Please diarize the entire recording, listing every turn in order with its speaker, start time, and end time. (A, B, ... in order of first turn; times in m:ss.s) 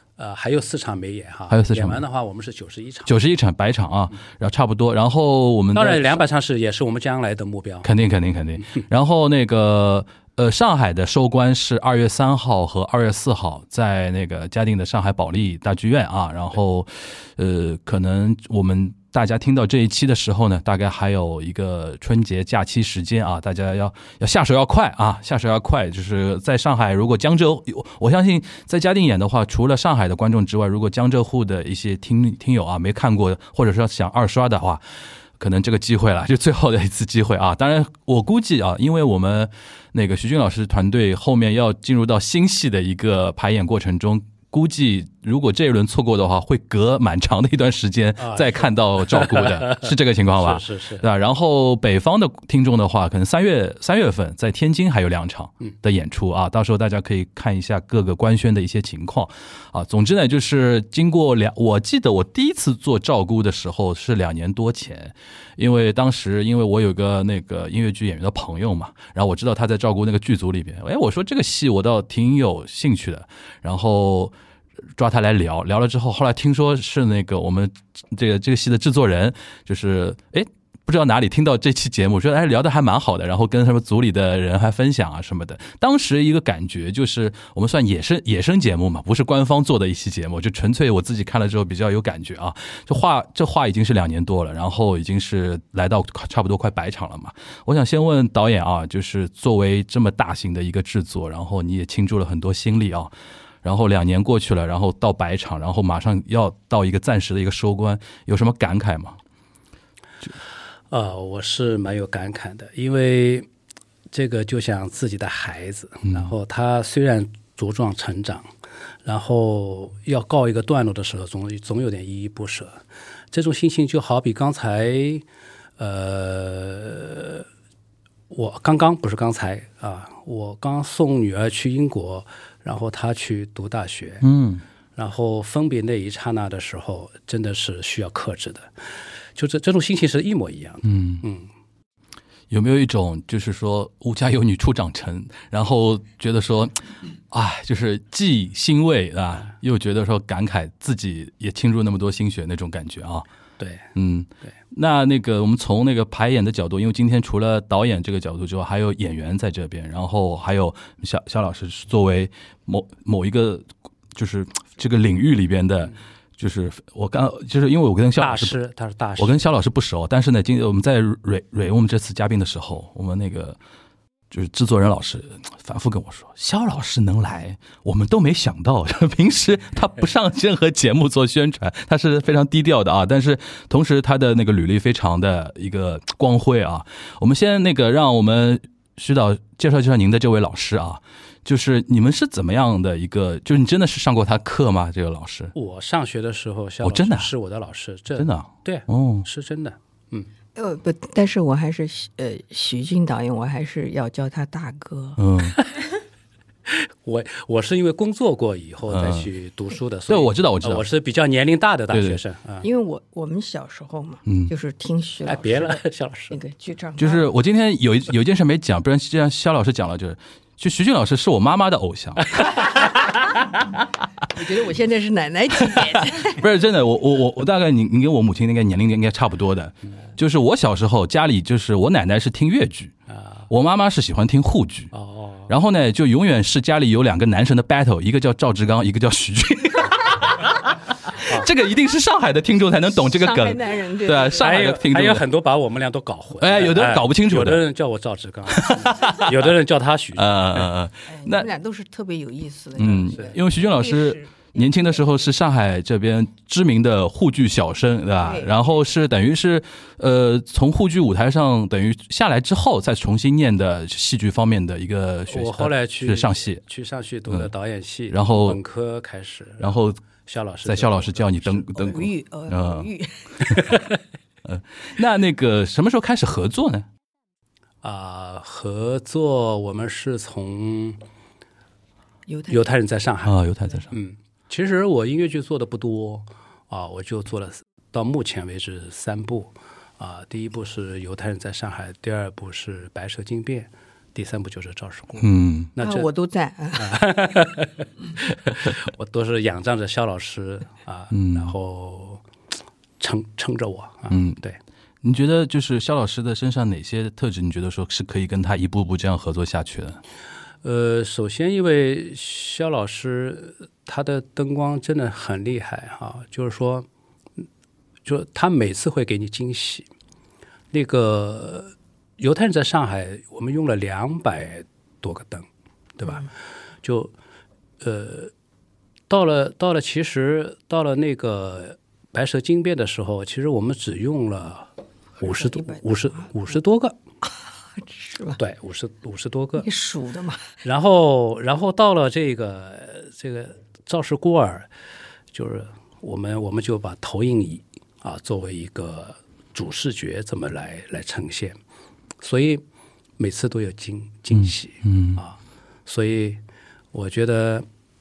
0:00.2-0:03.2 A
0:01.5-0:02.0 B
0:03.0-0:06.2 B
0:05.7-0:07.9 A
0:07.8-0:34.8 B
0:35.4-1:14.3 B
0:48.2-0:51.0 A
1:15.0-1:43.1 B
1:43.6-1:49.2 B
1:50.9-1:53.5 A
1:54.1-1:58.5 A
1:59.0-2:02.8 A
2:03.3-2:05.2 A
2:05.8-2:07.4 A
2:08.3-2:14.2 A
2:14.2-2:14.6 B
2:15.0-2:18.7 A
2:19.4-2:21.5 A
2:20.8-2:21.2 B
2:22.5-2:33.2 B
2:33.6-2:33.9 A
2:33.9-2:48.5 B
2:48.2-2:49.4 A
2:49.2-2:53.6 B
2:54.3-3:15.5 B
3:15.5-3:20.3 A
3:16.8-3:17.3 B
3:18.2-3:19.3 B
3:20.6-3:25.2 C
3:25.2-3:25.6 B
3:27.0-3:32.6 A
3:28.9-3:29.3 B
3:30.1-3:30.8 B
3:31.9-3:32.2 B
3:32.6-3:37.3 C
3:34.2-3:34.5 B
3:35.2-3:36.3 A
3:37.0-3:42.6 B
3:44.3-3:46.4 C
3:46.2-3:52.9 B
3:53.1-3:53.4 A
3:53.5-3:54.9 B
3:54.9-3:55.5 A
3:55.5-4:05.2 B
4:02.9-4:04.8 C
4:04.4-4:10.7 A
4:06.4-4:07.6 B
4:08.5-4:09.3 B
4:10.2-4:11.5 B
4:11.1-4:14.6 C
4:12.8-4:26.6 B
4:18.2-4:18.6 C
4:25.3-4:32.0 A
4:28.1-4:28.6 B
4:29.6-4:30.0 B
4:30.6-4:32.9 B
4:31.9-4:33.5 C
4:34.4-4:36.9 B
4:37.8-4:41.0 A
4:42.3-4:42.6 C
4:42.5-4:43.4 A
4:43.2-4:43.9 B
4:43.9-4:56.1 A
4:55.2-4:55.7 B
4:55.8-4:57.0 C
4:56.8-5:02.2 A
5:01.1-5:01.5 B
5:03.0-5:04.6 A
5:04.1-5:04.4 B
5:05.0-5:10.0 B
5:10.6-5:16.9 A
5:18.0-5:19.9 A
5:20.7-5:26.3 A
5:26.8-5:27.1 A
5:27.8-5:28.3 A
5:29.1-5:37.0 A
5:35.2-5:36.3 C
5:37.8-5:38.4 C
5:38.4-5:39.7 A
5:39.6-5:40.4 C
5:40.6-5:44.7 A
5:45.3-5:51.6 A
5:52.2-5:52.6 A
5:53.2-5:56.4 A
5:54.3-5:55.2 B
5:56.9-5:57.6 A